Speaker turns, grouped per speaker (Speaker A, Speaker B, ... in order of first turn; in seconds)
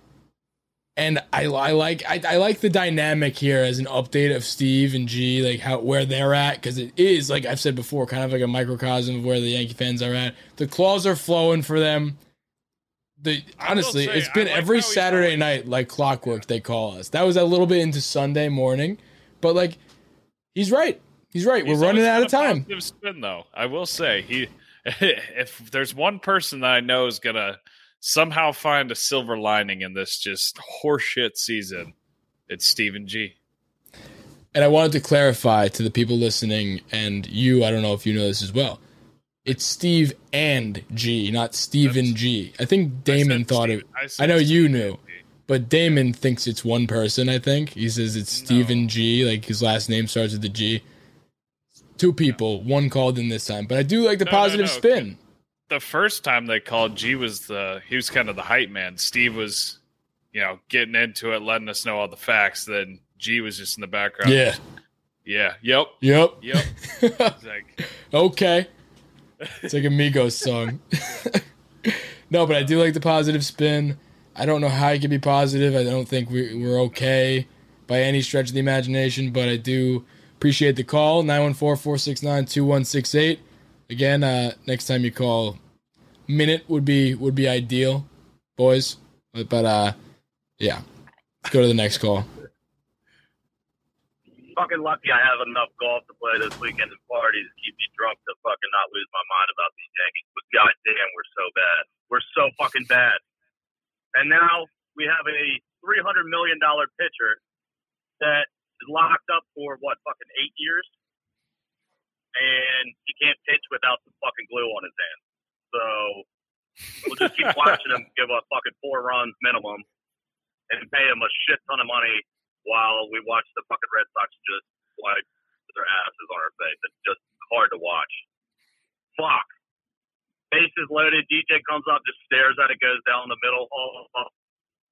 Speaker A: 0.9-12.2, 13.2-19.8, 20.5-22.6, 34.5-38.8, 39.4-50.8, 52.0-55.2, 64.2-64.6, 66.0-67.3, 68.1-68.7, 69.7-85.6, 86.3-90.0, 91.4-92.3
Speaker B: 13.6-15.6, 21.6-31.9, 32.5-33.3, 41.9-42.1, 43.1-45.2, 48.3-48.9, 54.2-55.1, 55.7-59.8, 60.3-64.4, 65.2-66.7, 67.3-67.8, 69.4-69.8, 76.5-77.0
Speaker C: 94.5-103.2, 104.1-107.4, 108.2-110.9, 112.3-115.2, 115.7-116.2, 117.0-119.8, 120.7-128.2, 129.2-129.5, 130.5-134.3